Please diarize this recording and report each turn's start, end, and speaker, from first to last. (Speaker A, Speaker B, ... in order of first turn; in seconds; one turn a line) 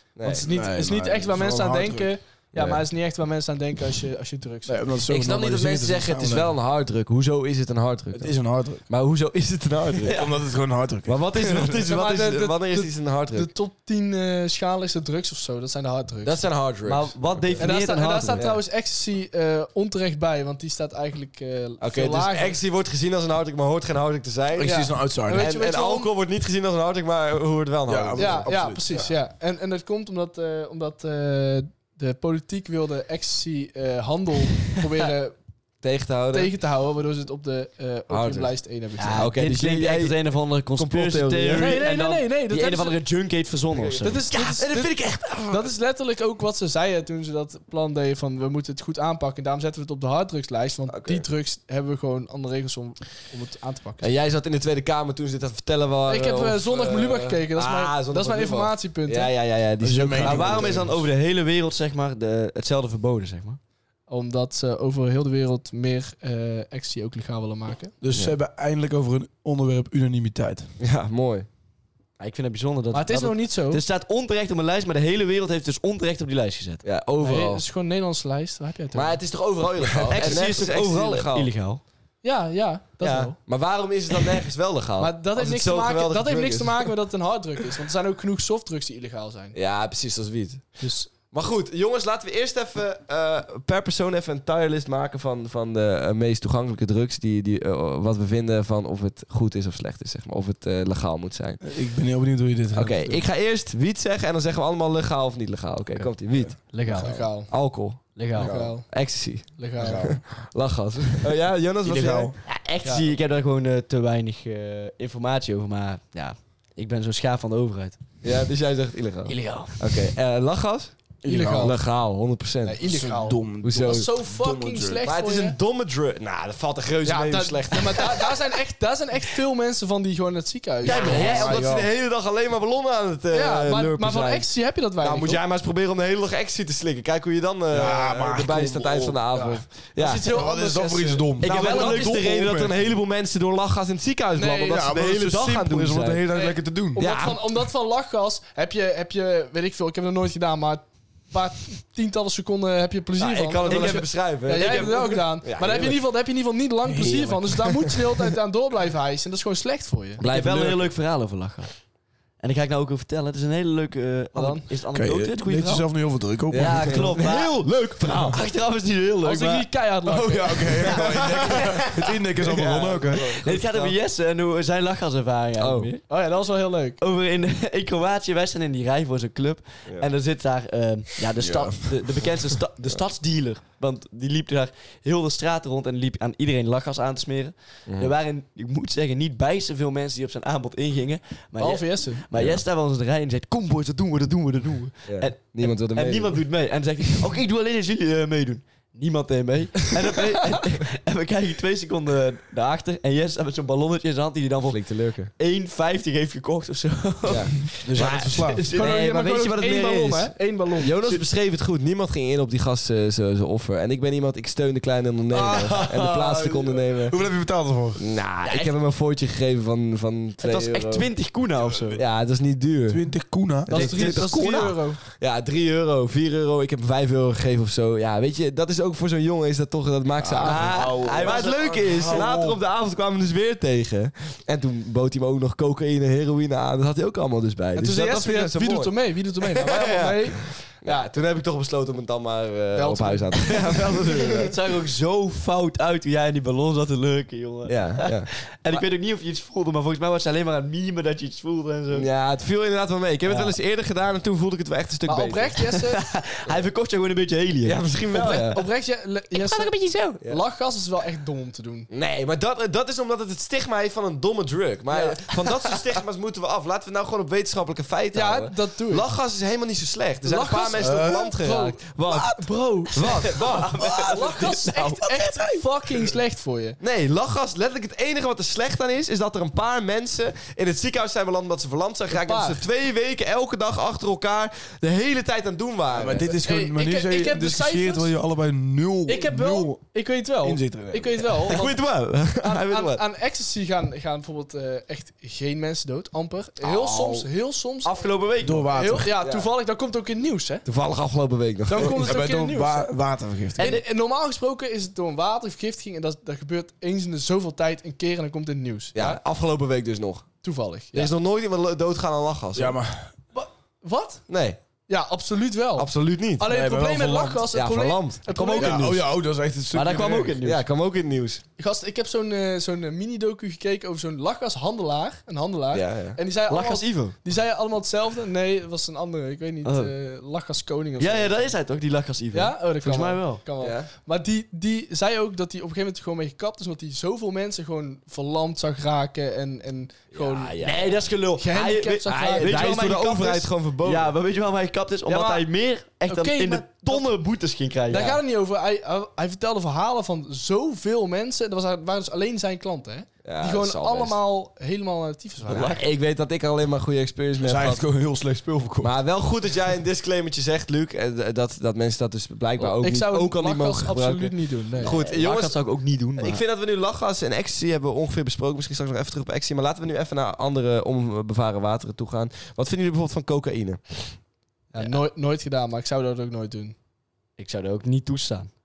Speaker A: 0.2-0.5
Speaker B: 0.2-4.8
Speaker C: 0.3-2.1
Speaker A: 2.5-2.8
Speaker C: 4.7-6.5
Speaker A: 5.1-8.3
Speaker C: 8.1-8.8
Speaker A: 8.9-10.2
Speaker C: 10.1-11.2
Speaker A: 11.1-13.5
Speaker B: 11.3-16.4
Speaker A: 16.2-17.8
Speaker D: 16.9-18.5
Speaker B: 17.6-22.6
Speaker A: 18.4-18.6
Speaker A: 21.8-28.5
Speaker C: 24.6-25.5
Speaker B: 24.6-26.1
Speaker C: 27.9-29.1
Speaker B: 28.2-35.4
Speaker A: 35.8-36.5
Speaker B: 36.3-39.3
Speaker A: 38.1-38.5
Speaker D: 39.0-44.3
Speaker A: 39.1-40.2
Speaker A: 40.8-41.8
Speaker B: 41.6-43.0
Speaker A: 43.7-45.7
Speaker B: 44.0-54.1
Speaker A: 50.9-51.2
Speaker A: 54.0-60.9
Speaker B: 56.1-59.3
Speaker C: 59.8-61.0
Speaker D: 60.2-63.6
Speaker B: 64.1-68.0
Speaker C: 68.0-70.7
Speaker A: 68.1-68.4
Speaker A: 70.8-71.5
Speaker D: 72.2-76.8
Speaker B: 72.9-73.8
Speaker A: 76.8-77.6
Speaker B: 77.2-79.2
Speaker A: 78.9-81.5
Speaker D: 80.1-81.8
Speaker B: 82.2-83.4
Speaker A: 83.0-86.9
Speaker B: 85.0-89.6
Speaker A: 89.5-101.6
Speaker B: 90.8-91.1
Speaker C: 101.6-103.2
Speaker A: 102.7-106.8
Speaker C: 106.5-107.2
Speaker D: 106.7-107.2
Speaker B: 106.9-107.5
Speaker A: 107.5-112.3
Speaker D: 108.2-108.7
Speaker B: 108.3-110.1
Speaker C: 109.8-110.2
Speaker C: 111.8-112.4
Speaker D: 112.4-118.0
Speaker B: 112.8-113.2
Speaker A: 118.2-121.0
Speaker D: 119.3-119.9
Speaker C: 121.2-121.8
Speaker B: 121.3-121.8
Speaker A: 121.6-122.8
Speaker B: 122.6-125.6
Speaker C: 122.8-125.0
Speaker A: 123.6-124.1
Speaker A: 125.0-128.3
Speaker B: 127.0-131.2
Speaker D: 130.8-131.6
Speaker A: 130.8-140.4
Speaker C: 130.9-131.9
Speaker B: 133.3-135.4
Speaker C: 137.7-139.6
Speaker B: 139.3-142.1
Speaker C: 140.2-142.8
Speaker A: 141.4-146.2
Speaker B: 144.3-144.8
Speaker C: 144.5-147.1
Speaker B: 146.3-160.2
Speaker A: 147.0-147.4
Speaker A: 153.2-156.0
Speaker D: 153.6-155.2
Speaker C: 156.9-157.4
Speaker A: 160.2-160.9
Speaker D: 160.2-161.8
Speaker D: 162.4-165.9
Speaker B: 164.3-164.7
Speaker C: 164.9-167.1
Speaker A: 166.5-168.4
Speaker D: 166.5-167.7
Speaker C: 168.1-168.3
Speaker D: 168.3-169.7
Speaker B: 169.2-171.2
Speaker C: 170.1-173.5
Speaker A: 171.3-171.8
Speaker A: 172.4-173.6
Speaker D: 173.4-176.1
Speaker A: 175.6-175.9
Speaker B: 176.1-177.0
Speaker D: 177.0-209.0
Speaker C: 181.4-182.4
Speaker A: 187.9-188.1
Speaker B: 191.6-192.2
Speaker A: 192.3-192.6
Speaker A: 195.1-196.4
Speaker A: 204.7-205.3
Speaker A: 207.3-217.2
Speaker C: 207.8-208.6
Speaker B: 208.7-211.3
Speaker C: 215.3-218.1
Speaker A: 218.0-221.2
Speaker D: 218.4-218.8
Speaker D: 220.4-222.0
Speaker C: 221.7-222.0
Speaker A: 221.9-223.1
Speaker C: 222.9-224.2
Speaker A: 223.6-238.9
Speaker B: 223.7-225.0
Speaker C: 230.4-232.6
Speaker D: 230.4-232.3
Speaker B: 237.8-241.1
Speaker A: 239.6-244.5
Speaker B: 242.8-244.5
Speaker D: 244.4-252.1
Speaker A: 247.7-248.8
Speaker A: 251.9-255.7
Speaker D: 253.3-253.6
Speaker B: 255.1-256.0
Speaker D: 255.7-258.5
Speaker A: 257.6-258.6
Speaker B: 258.1-261.9
Speaker D: 259.3-260.2
Speaker A: 261.9-274.3
Speaker B: 268.1-269.1
Speaker B: 270.2-273.3
Speaker C: 270.8-271.3
Speaker D: 272.9-275.6
Speaker B: 274.0-276.8
Speaker A: 276.8-286.3
Speaker B: 282.1-282.6
Speaker C: 285.9-291.2
Speaker B: 286.3-288.1
Speaker B: 289.1-298.1
Speaker A: 291.4-293.0
Speaker D: 296.6-297.2
Speaker D: 297.8-298.7
Speaker C: 298.4-299.1
Speaker B: 298.7-300.7
Speaker A: 299.2-299.5
Speaker A: 300.6-302.1
Speaker B: 301.7-303.0
Speaker C: 301.8-303.8
Speaker B: 303.6-309.2
Speaker A: 308.9-310.3
Speaker B: 310.4-311.1
Speaker A: 310.9-312.8
Speaker C: 312.6-313.1
Speaker B: 313.3-314.2
Speaker A: 314.3-314.6
Speaker B: 314.9-318.8
Speaker A: 315.8-316.5
Speaker C: 316.4-317.5
Speaker A: 317.5-319.0
Speaker C: 318.5-320.4
Speaker D: 319.7-320.6
Speaker A: 320.4-321.4
Speaker B: 321.6-331.5
Speaker A: 325.7-326.2
Speaker D: 326.5-327.1
Speaker D: 329.6-329.9
Speaker D: 331.0-333.4
Speaker B: 332.3-340.7
Speaker A: 333.6-333.9
Speaker A: 340.1-341.0
Speaker D: 340.6-348.2
Speaker B: 341.4-342.8
Speaker A: 342.1-344.1
Speaker B: 345.1-345.5
Speaker B: 346.1-347.1
Speaker B: 347.9-355.8
Speaker A: 353.2-354.2
Speaker A: 355.5-357.8
Speaker D: 355.5-355.8
Speaker C: 357.4-358.9
Speaker A: 358.8-365.6
Speaker B: 362.6-365.0
Speaker D: 364.8-366.4
Speaker A: 366.2-374.2
Speaker B: 374.7-376.8
Speaker D: 377.4-378.5